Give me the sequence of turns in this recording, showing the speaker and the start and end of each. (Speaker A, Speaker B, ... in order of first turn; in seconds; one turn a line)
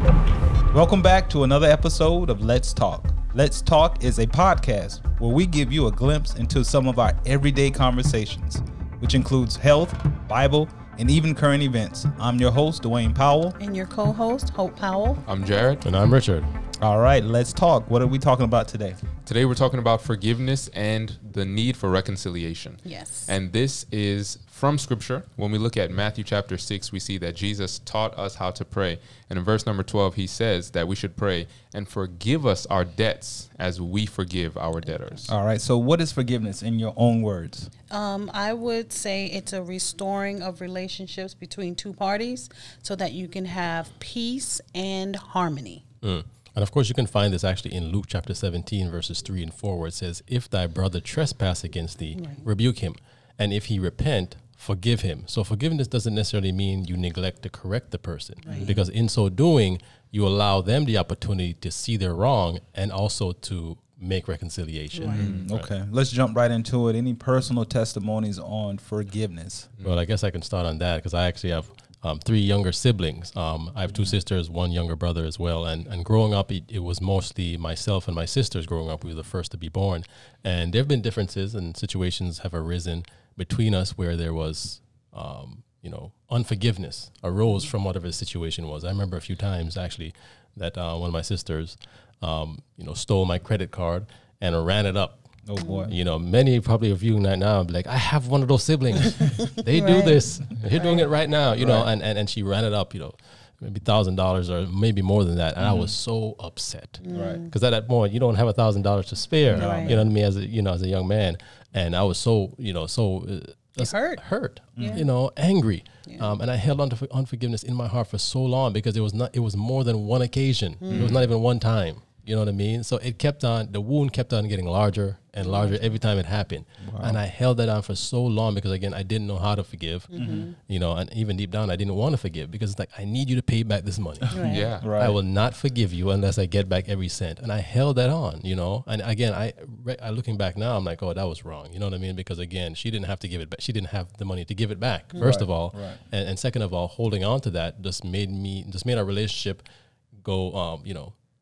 Speaker A: 0.7-13.6
Speaker B: 13.6-15.2
Speaker C: 15.3-15.8
Speaker D: 15.8-16.5
Speaker A: 16.8-19.0
Speaker C: 19.3-35.3
Speaker B: 22.9-23.3
Speaker A: 35.3-37.7
Speaker B: 37.9-45.8
Speaker D: 46.0-65.7
Speaker B: 52.1-52.5
Speaker B: 58.4-58.7
Speaker A: 58.5-58.8
Speaker B: 64.9-65.3
Speaker A: 65.1-69.7
Speaker C: 65.2-65.5
Speaker D: 69.8-149.7
Speaker A: 73.9-74.2
Speaker A: 95.5-95.9
Speaker B: 95.6-95.9
Speaker B: 99.7-101.0
Speaker A: 101.6-101.9
Speaker A: 105.6-105.9
Speaker B: 107.0-107.5
Speaker A: 107.1-107.4
Speaker A: 109.5-110.1
Speaker B: 109.5-110.0
Speaker B: 113.8-114.2
Speaker A: 114.8-115.0
Speaker B: 114.8-115.1
Speaker B: 116.0-116.3
Speaker B: 120.8-121.2
Speaker C: 120.9-121.2
Speaker B: 125.4-126.0
Speaker A: 126.8-127.2
Speaker B: 130.1-130.6
Speaker A: 130.2-130.5
Speaker B: 134.3-134.7
Speaker A: 134.4-135.2
Speaker C: 134.5-134.9
Speaker B: 145.1-145.4
Speaker A: 145.2-146.0
Speaker D: 150.2-151.2